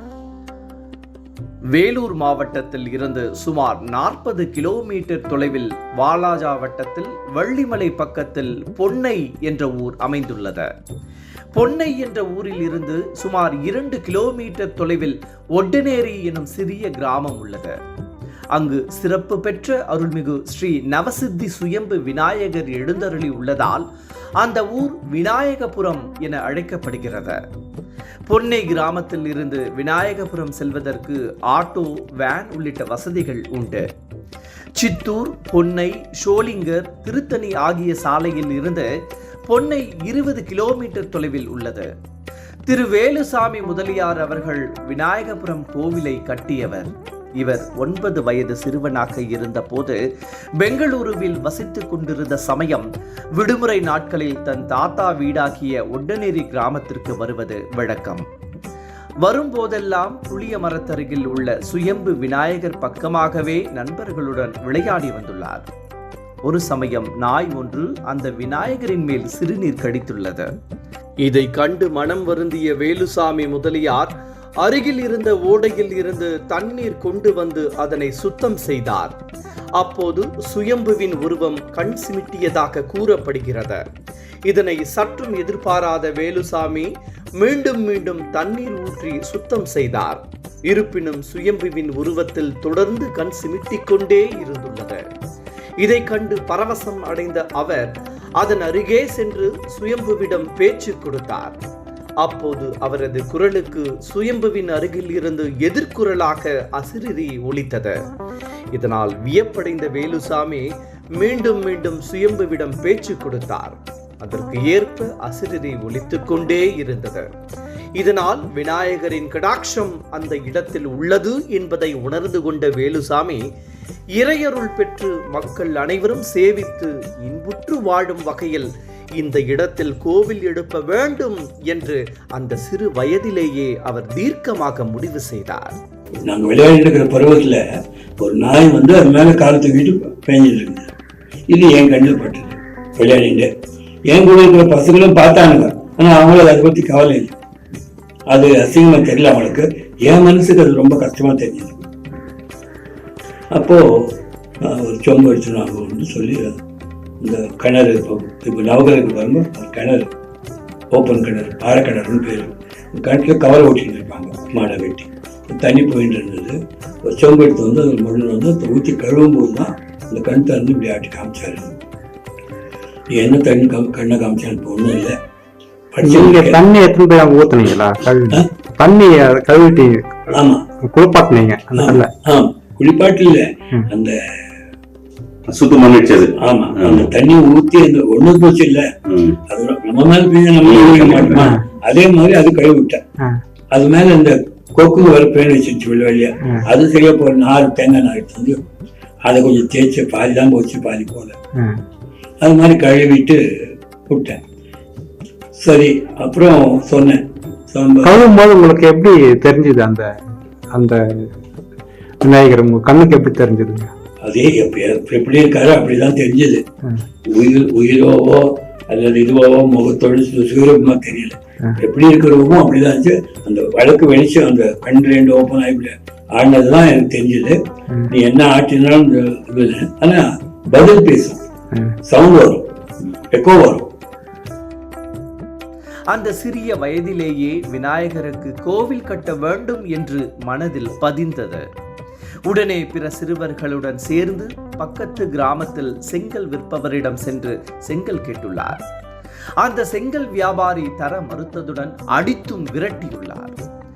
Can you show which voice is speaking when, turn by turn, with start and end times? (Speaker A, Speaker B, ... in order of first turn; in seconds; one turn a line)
Speaker A: 1.7-10.7
Speaker A: 11.5-17.8
Speaker A: 18.5-23.9
Speaker A: 24.4-27.4
Speaker A: 28.2-33.8
Speaker A: 34.8-38.9
Speaker A: 39.5-41.9
Speaker A: 42.7-50.0
Speaker A: 50.6-58.2
Speaker A: 59.2-65.7
Speaker A: 66.4-70.5
Speaker A: 71.2-79.2
Speaker A: 79.8-83.8
Speaker A: 84.5-95.0
Speaker A: 95.8-101.6
Speaker A: 102.2-108.0
Speaker A: 108.7-117.3
Speaker A: 118.0-123.4
Speaker A: 124.2-135.8
Speaker B: 136.2-137.6
Speaker B: 138.2-140.9
Speaker B: 141.5-143.5
Speaker B: 144.1-147.3
Speaker B: 148.3-151.8
Speaker B: 153.5-156.6
Speaker B: 157.2-160.1
Speaker B: 160.9-171.8
Speaker B: 173.1-175.2
Speaker B: 175.9-176.7
Speaker C: 176.0-180.0
Speaker B: 180.3-180.6
Speaker C: 180.8-182.1
Speaker B: 181.7-184.6
Speaker D: 185.5-187.1
Speaker B: 186.4-188.9
Speaker D: 189.1-189.4
Speaker B: 189.5-193.0
Speaker D: 190.6-191.5
Speaker C: 191.0-191.6
Speaker B: 193.7-198.6
Speaker B: 199.2-201.4
Speaker C: 201.6-201.8
Speaker B: 202.4-204.4
Speaker B: 205.5-208.2
Speaker C: 208.0-210.1
Speaker C: 210.7-211.3
Speaker C: 212.2-213.9
Speaker B: 214.2-216.6
Speaker B: 217.2-231.4
Speaker B: 232.0-232.7
Speaker B: 233.3-233.9
Speaker A: 236.1-241.6
Speaker A: 242.5-248.8
Speaker A: 249.6-253.6